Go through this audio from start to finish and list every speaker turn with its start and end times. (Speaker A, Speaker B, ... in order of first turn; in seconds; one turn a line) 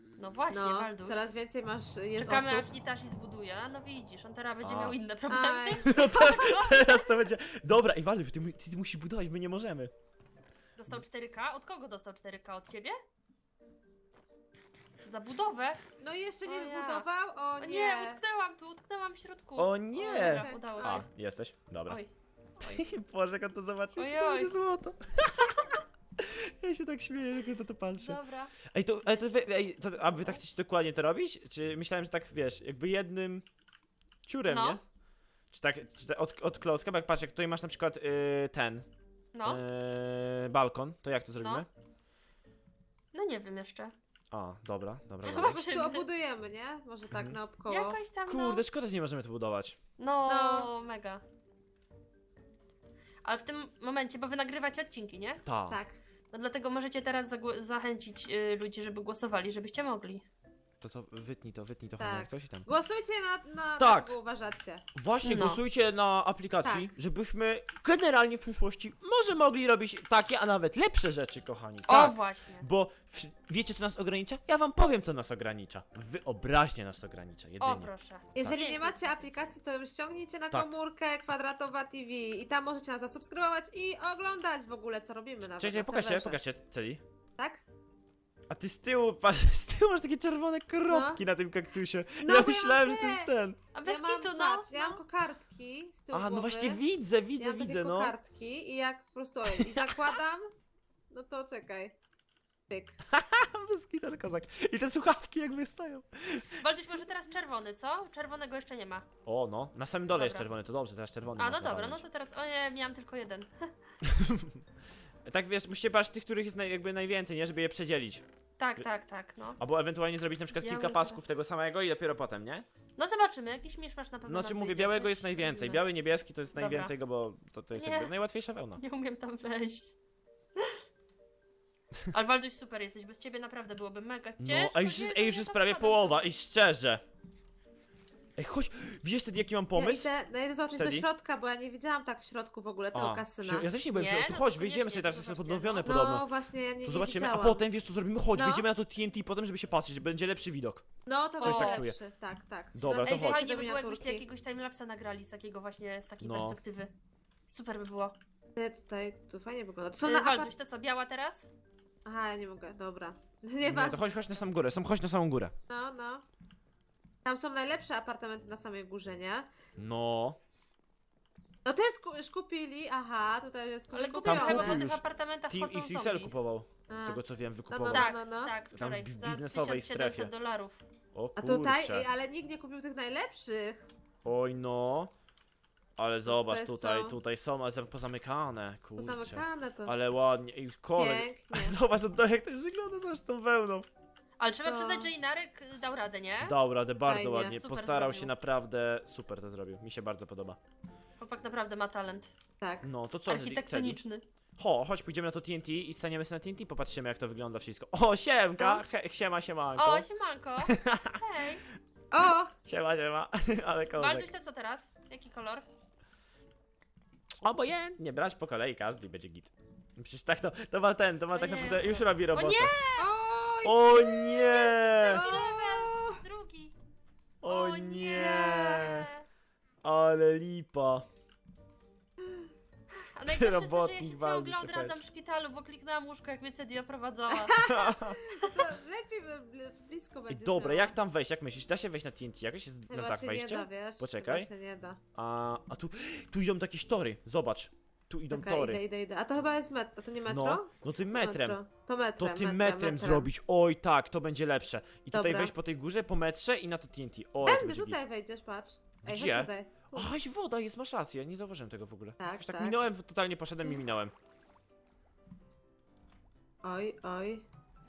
Speaker A: 0.2-1.3
Speaker B: 0.5-2.7
Speaker A: 2.2-7.0
Speaker C: 4.6-5.0
Speaker B: 5.3-6.7
Speaker C: 5.8-9.9
Speaker A: 10.8-13.0
Speaker A: 15.0-15.8
Speaker B: 16.0-18.2
Speaker A: 16.4-17.1
Speaker A: 17.6-21.1
Speaker C: 19.6-22.0
Speaker B: 20.2-21.1
Speaker A: 21.9-22.9
Speaker C: 22.6-28.2
Speaker A: 24.0-24.5
Speaker A: 27.9-28.5
Speaker C: 28.7-33.5
Speaker A: 29.1-30.4
Speaker C: 34.3-34.8
Speaker A: 34.5-34.8
Speaker C: 35.5-38.9
Speaker A: 39.3-39.6
Speaker C: 39.5-41.7
Speaker A: 41.4-41.7
Speaker A: 43.1-43.9
Speaker C: 44.3-45.6
Speaker A: 45.2-46.1
Speaker B: 45.4-48.0
Speaker C: 47.1-47.4
Speaker A: 47.7-48.6
Speaker C: 48.3-49.8
Speaker A: 50.0-51.2
Speaker B: 50.3-50.7
Speaker A: 53.2-55.4
Speaker C: 55.4-55.8
Speaker B: 55.7-56.0
Speaker A: 56.3-60.2
Speaker C: 60.8-62.7
Speaker B: 62.0-64.8
Speaker C: 63.8-64.2
Speaker C: 65.0-77.9
Speaker A: 65.2-65.6
Speaker B: 66.6-66.9
Speaker A: 71.9-72.7
Speaker A: 77.6-79.3
Speaker B: 78.4-86.4
Speaker C: 85.5-87.0
Speaker B: 87.4-87.6
Speaker C: 88.5-93.6
Speaker B: 90.9-91.2
Speaker B: 92.2-93.3
Speaker A: 93.7-95.0
Speaker B: 93.8-96.8
Speaker C: 96.1-98.1
Speaker B: 97.4-100.5
Speaker C: 99.6-99.9
Speaker B: 101.1-102.0
Speaker B: 102.7-103.0
Speaker C: 103.1-106.9
Speaker A: 106.6-109.1
Speaker C: 109.2-112.0
Speaker A: 110.1-110.5
Speaker A: 111.4-113.9
Speaker C: 114.1-114.6
Speaker C: 115.2-118.2
Speaker A: 118.6-119.6
Speaker C: 119.6-122.7
Speaker A: 120.5-121.2
Speaker A: 123.0-125.8
Speaker C: 124.3-128.8
Speaker A: 126.5-126.9
Speaker A: 127.8-128.1
Speaker A: 128.8-129.9
Speaker A: 132.1-136.3
Speaker C: 134.4-137.0
Speaker C: 138.4-140.1
Speaker B: 139.8-143.7
Speaker C: 140.8-141.1
Speaker C: 142.9-146.2
Speaker A: 143.9-145.9
Speaker B: 145.8-147.6
Speaker C: 146.8-150.8
Speaker B: 148.3-148.7
Speaker B: 151.1-154.2
Speaker A: 151.4-151.9
Speaker C: 151.4-152.0
Speaker C: 152.7-153.4
Speaker A: 152.9-156.9
Speaker C: 156.2-156.6
Speaker A: 157.5-158.2
Speaker B: 158.6-160.5
Speaker A: 160.0-161.5
Speaker B: 162.1-164.0
Speaker C: 163.6-165.5
Speaker B: 165.7-166.2
Speaker B: 167.2-169.5
Speaker C: 169.8-170.4
Speaker B: 171.7-174.8
Speaker A: 173.9-176.3
Speaker C: 174.2-178.1
Speaker B: 176.9-178.6
Speaker A: 177.9-180.8
Speaker C: 178.7-180.3
Speaker C: 181.1-182.1
Speaker B: 181.4-183.9
Speaker C: 184.2-185.1
Speaker C: 186.0-193.9
Speaker B: 186.3-187.2
Speaker B: 189.0-189.9
Speaker B: 191.0-191.8
Speaker A: 194.4-196.6
Speaker B: 194.6-195.1
Speaker C: 196.4-200.6
Speaker B: 197.1-197.5
Speaker A: 197.2-198.3
Speaker A: 201.2-202.3
Speaker B: 202.6-202.9
Speaker C: 202.8-204.0
Speaker A: 203.3-204.2
Speaker C: 204.6-210.1
Speaker B: 208.6-208.8
Speaker A: 209.8-211.6
Speaker C: 210.6-211.2
Speaker B: 212.1-212.6
Speaker C: 212.6-214.3
Speaker A: 214.0-215.7
Speaker C: 217.4-222.7
Speaker A: 221.3-223.1
Speaker B: 223.0-226.2
Speaker C: 223.6-225.2
Speaker A: 224.7-226.8
Speaker C: 227.4-229.1
Speaker A: 227.4-229.2
Speaker B: 228.1-228.9
Speaker C: 229.8-231.1
Speaker A: 233.2-237.8
Speaker C: 233.3-235.0
Speaker B: 237.4-241.0
Speaker C: 237.7-238.2
Speaker A: 238.3-238.7
Speaker C: 240.3-244.5
Speaker B: 242.9-245.0
Speaker C: 245.2-248.8
Speaker B: 248.3-253.3
Speaker C: 250.3-251.6
Speaker C: 252.2-258.0
Speaker B: 255.1-255.5
Speaker B: 257.4-260.1
Speaker C: 259.0-264.1
Speaker B: 262.2-262.8
Speaker B: 266.6-267.4